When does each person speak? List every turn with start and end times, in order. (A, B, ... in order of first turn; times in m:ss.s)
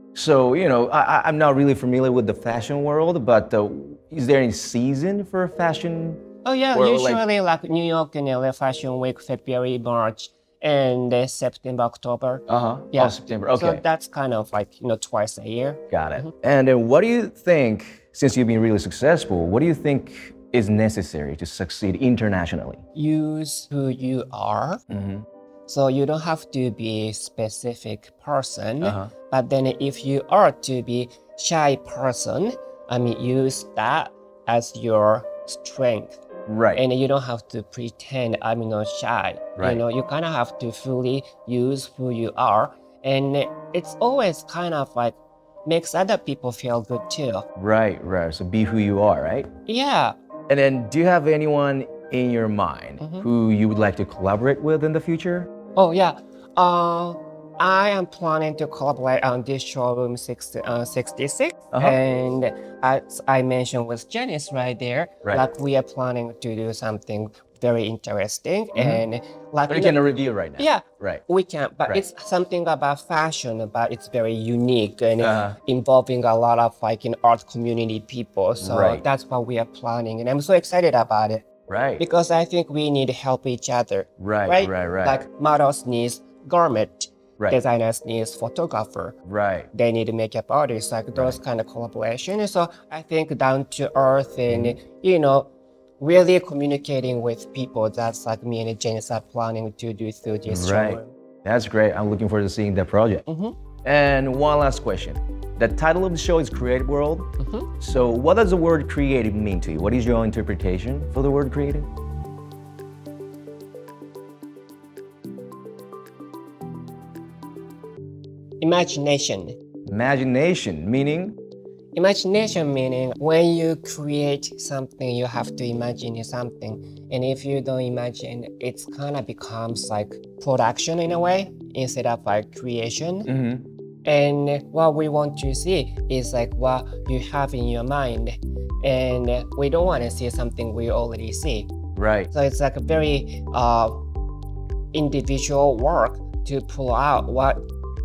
0:00.1-0:07.2 A
0:06.4-0:16.3 B
0:12.5-0:13.8 A
0:15.9-0:22.8 A
0:22.9-0:24.8 B
0:24.9-0:25.2 A
0:25.7-0:36.2 B
0:28.8-0:29.1 A
0:36.5-0:36.8 A
0:36.7-0:47.4 B
0:47.6-0:49.5 A
0:49.7-0:50.1 B
0:50.5-0:55.5 A
0:53.0-0:53.3 B
0:55.8-1:10.0 B
1:01.7-1:02.0 A
1:08.7-1:09.0 A
1:09.7-1:11.2 A
1:10.6-1:21.4 B
1:15.2-1:15.6 A
1:18.6-1:19.0 A
1:21.7-1:22.0 A
1:22.0-1:29.2 B
1:24.2-1:25.2 A
1:29.2-1:29.7 A
1:29.7-1:41.1 B
1:34.5-1:34.8 A
1:40.5-1:43.2 A
1:43.3-1:43.6 B
1:43.8-1:51.9 A
1:47.4-1:47.7 B
1:58.6-1:59.6 B
1:59.8-2:01.4 A
2:01.9-2:13.3 B
2:13.3-2:13.6 A
2:14.0-2:21.7 B
2:21.9-2:22.3 A
2:22.3-2:24.0 B
2:24.9-2:27.6 B